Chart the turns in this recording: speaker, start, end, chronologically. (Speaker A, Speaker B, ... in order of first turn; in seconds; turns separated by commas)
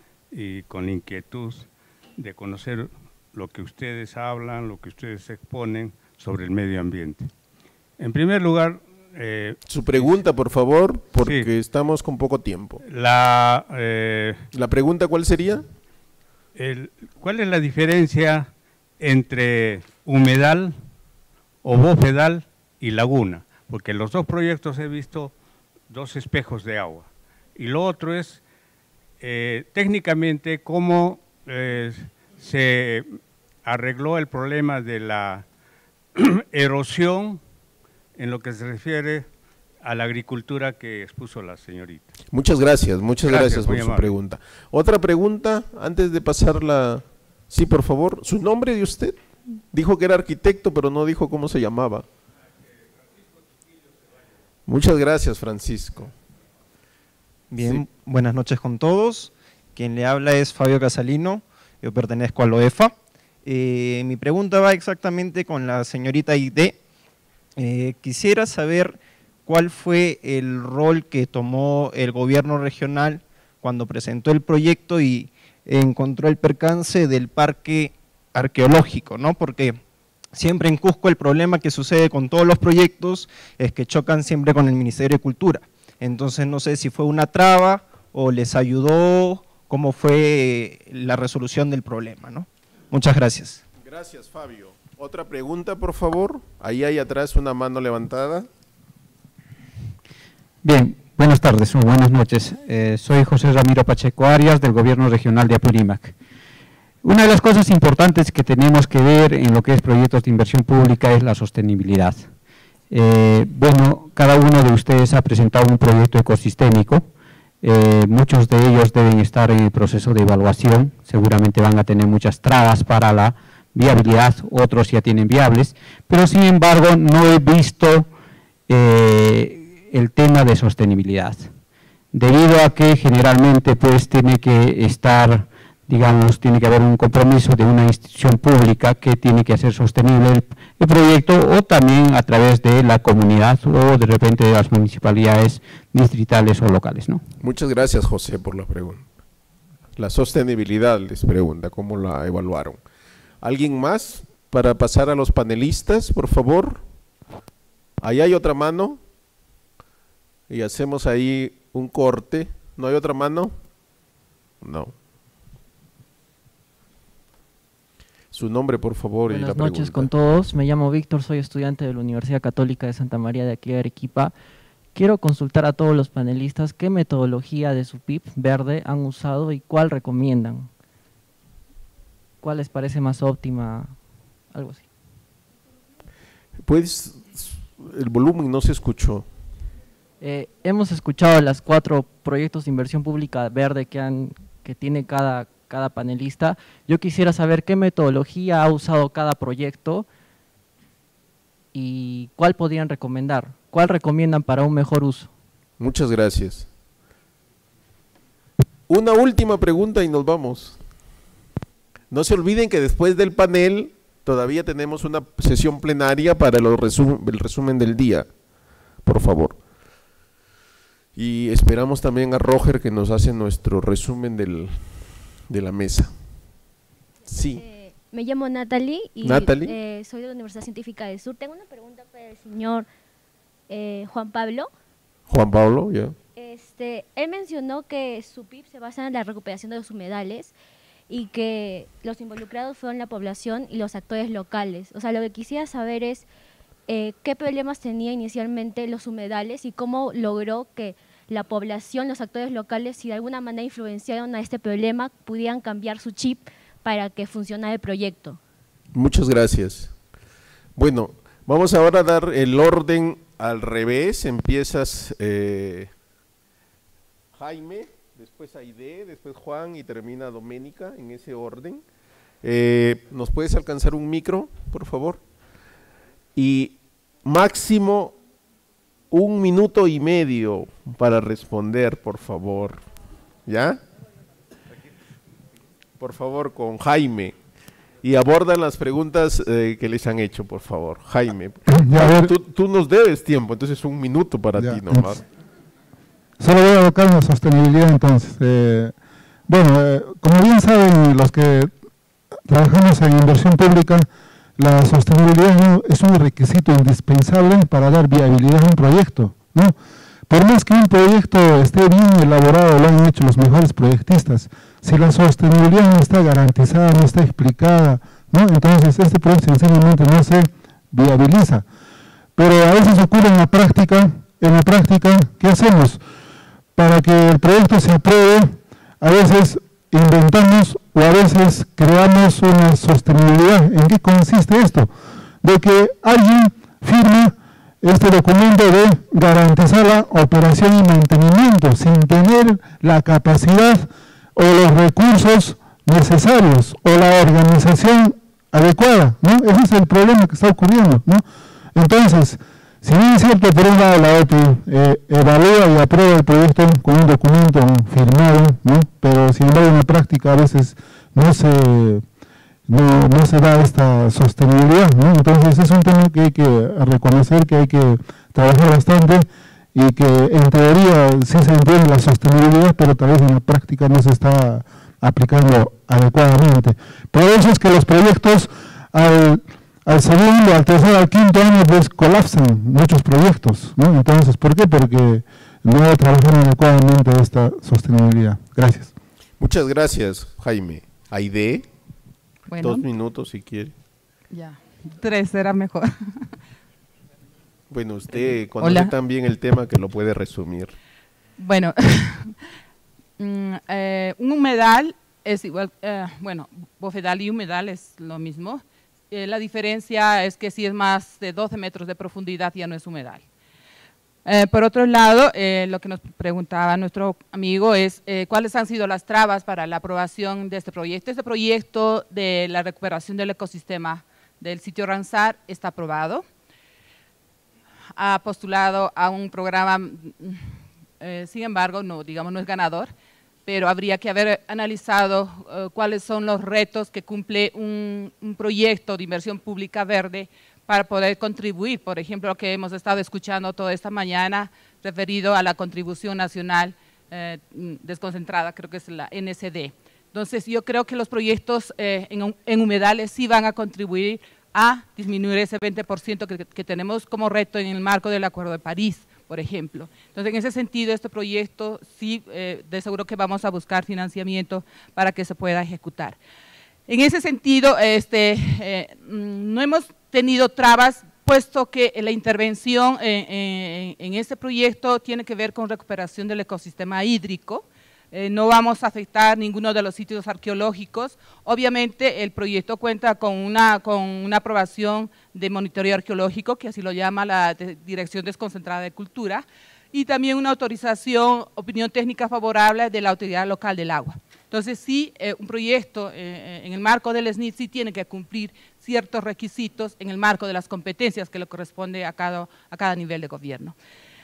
Speaker A: 0.3-7.3, Speaker A: 8.0-10.2, Speaker B: 9.7-12.8, Speaker A: 12.8-14.5, Speaker B: 14.5-15.6, Speaker A: 16.6-20.8, Speaker A: 21.6-25.3, Speaker A: 25.9-28.4, Speaker A: 29.2-33.1, Speaker A: 33.6-35.5, Speaker A: 36.2-37.4, Speaker A: 38.2-39.3, Speaker A: 39.8-42.1, Speaker B: 42.3-49.2, Speaker A: 43.2-44.2, Speaker B: 49.7-52.1, Speaker B: 54.7-56.1, Speaker C: 57.5-62.9, Speaker B: 57.6-57.8, Speaker C: 63.5-66.8, Speaker C: 67.6-79.8, Speaker C: 80.3-93.6, Speaker B: 93.8-98.5, Speaker D: 100.6-106.1, Speaker D: 107.0-112.3, Speaker D: 112.9-117.1, Speaker D: 117.6-128.1, Speaker D: 128.7-131.5, Speaker D: 132.1-147.2, Speaker B: 147.4-149.0, Speaker B: 150.0-152.8, Speaker B: 153.4-156.8, Speaker B: 158.0-159.0, Speaker B: 160.5-163.5, Speaker B: 164.6-164.9, Speaker B: 168.3-170.1, Speaker E: 169.3-174.3, Speaker E: 174.9-180.7, Speaker E: 182.4-184.9, Speaker B: 186.7-189.3, Speaker E: 190.2-200.1, Speaker E: 201.7-205.3, Speaker B: 205.8-206.7, Speaker B: 208.9-210.8, Speaker B: 212.1-218.3, Speaker B: 219.1-219.6, Speaker B: 221.2-226.1, Speaker B: 227.3-227.6, Speaker F: 227.5-232.9, Speaker B: 229.2-229.8, Speaker F: 233.7-234.7, Speaker B: 235.3-236.2, Speaker F: 236.4-240.5, Speaker F: 241.1-246.3, Speaker F: 246.9-258.4, Speaker B: 258.9-259.9, Speaker B: 260.8-265.9, Speaker B: 267.4-271.8, Speaker B: 272.4-275.2, Speaker B: 276.4-278.2, Speaker B: 279.1-282.8, Speaker B: 283.5-283.8, Speaker B: 286.0-287.4, Speaker B: 288.0-295.2, Speaker G: 291.7-292.3, Speaker G: 294.6-295.1, Speaker G: 296.4-298.9, Speaker G: 299.5-301.7, Speaker G: 302.5-309.8, Speaker G: 310.3-321.6, Speaker G: 322.4-326.0, Speaker G: 326.8-362.0, Speaker G: 362.7-388.9, Speaker B: 389.4-391.7, Speaker H: 392.5-392.9, Speaker B: 392.6-393.8, Speaker H: 394.3-396.3, Speaker B: 397.7-400.8, Speaker H: 398.6-398.9, Speaker H: 401.4-402.4, Speaker H: 403.2-413.2, Speaker H: 414.2-426.2, Speaker H: 428.0-432.9, Speaker H: 433.5-466.2, Speaker H: 466.9-503.8